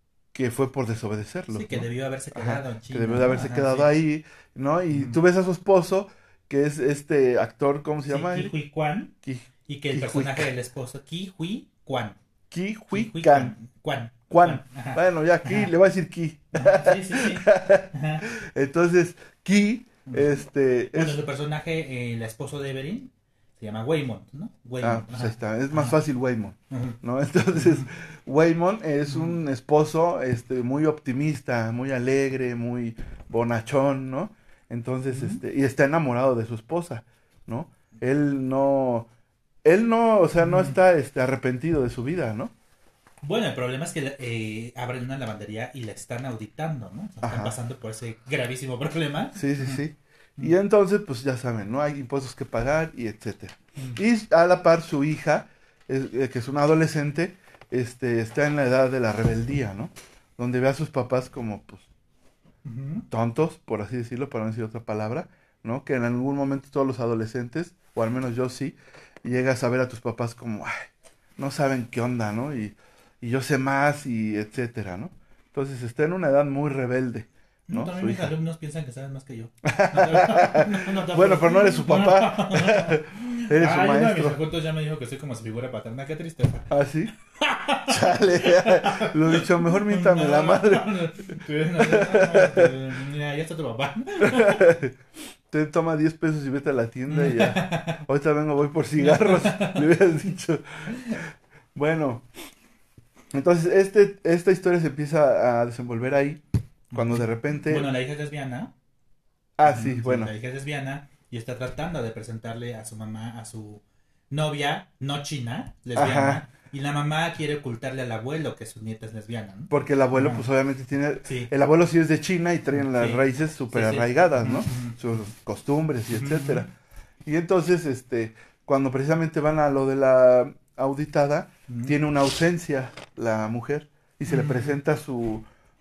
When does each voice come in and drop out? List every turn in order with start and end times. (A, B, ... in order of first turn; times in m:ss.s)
0:00.3-0:08.5 A
0:01.5-0:04.0 B
0:04.9-0:05.2 B
0:08.1-0:09.1 B
0:09.2-0:10.5 A
0:09.6-0:12.2 B
0:12.5-0:13.5 A
0:12.9-0:15.7 B
0:14.3-0:21.2 A
0:16.5-0:18.2 B
0:20.9-0:26.0 B
0:24.8-0:39.1 A
0:26.7-0:27.0 B
0:27.5-0:27.9 B
0:29.1-0:29.4 B
0:35.1-0:35.4 B
0:39.6-0:42.5 A
0:40.4-0:40.8 B
0:43.2-0:49.8 B
0:47.2-0:47.5 A
0:49.3-1:01.8 A
1:02.6-1:03.1 B
1:03.1-1:18.3 A
1:17.7-1:26.7 B
1:19.6-1:24.4 A
1:26.7-1:27.1 A
1:27.3-1:34.6 B
1:27.9-1:30.9 A
1:31.8-1:32.7 A
1:34.2-1:35.0 A
1:35.5-1:41.2 A
1:37.1-1:38.0 B
1:39.0-1:39.8 B
1:40.9-1:41.2 B
1:41.7-1:42.2 A
1:43.3-1:46.4 A
1:46.9-1:47.9 A
1:46.9-1:48.7 B
1:49.6-1:50.3 A
1:49.6-2:00.4 B
1:56.0-1:56.4 A
1:59.7-2:06.7 A
2:01.2-2:01.5 B
2:02.7-2:05.2 B
2:06.1-2:06.6 B
2:07.2-2:15.4 A
2:11.7-2:12.0 B
2:14.2-2:14.8 B